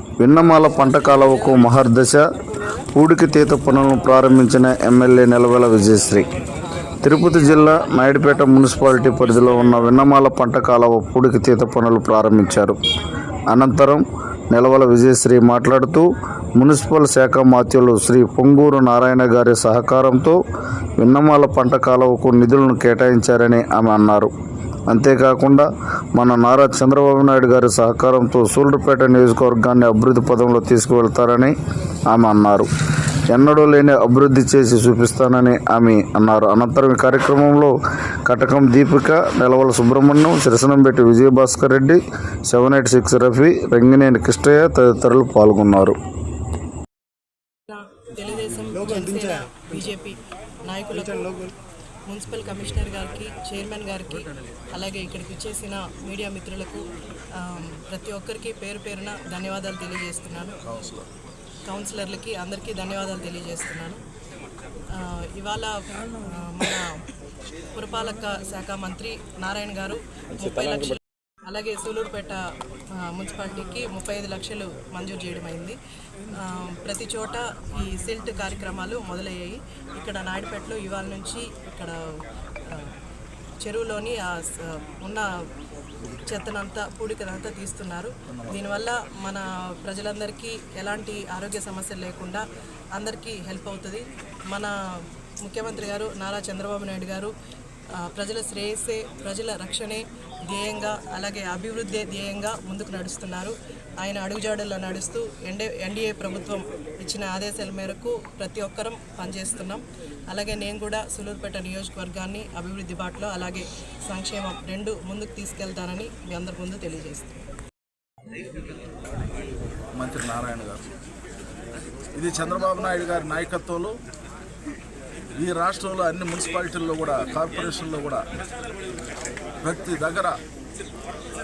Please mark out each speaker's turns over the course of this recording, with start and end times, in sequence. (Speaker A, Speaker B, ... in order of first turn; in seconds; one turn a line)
Speaker A: 0.2-2.2
Speaker A: 2.9-6.3
Speaker A: 7.0-12.8
Speaker A: 13.5-20.4
Speaker A: 21.0-24.3
Speaker A: 24.9-31.6
Speaker A: 32.1-32.7
Speaker A: 33.3-46.0
Speaker B: 47.7-51.4
Speaker B: 52.1-60.6
Speaker C: 60.6-61.1
Speaker B: 61.6-64.0
Speaker B: 64.9-67.1
Speaker B: 67.7-75.8
Speaker B: 76.3-83.0
Speaker B: 83.6-85.3
Speaker B: 86.1-97.3
Speaker C: 88.3-88.6
Speaker B: 98.0-117.4
Speaker C: 119.9-120.9
Speaker C: 122.1-124.0
Speaker C: 125.4-128.3
Speaker C: 129.6-130.4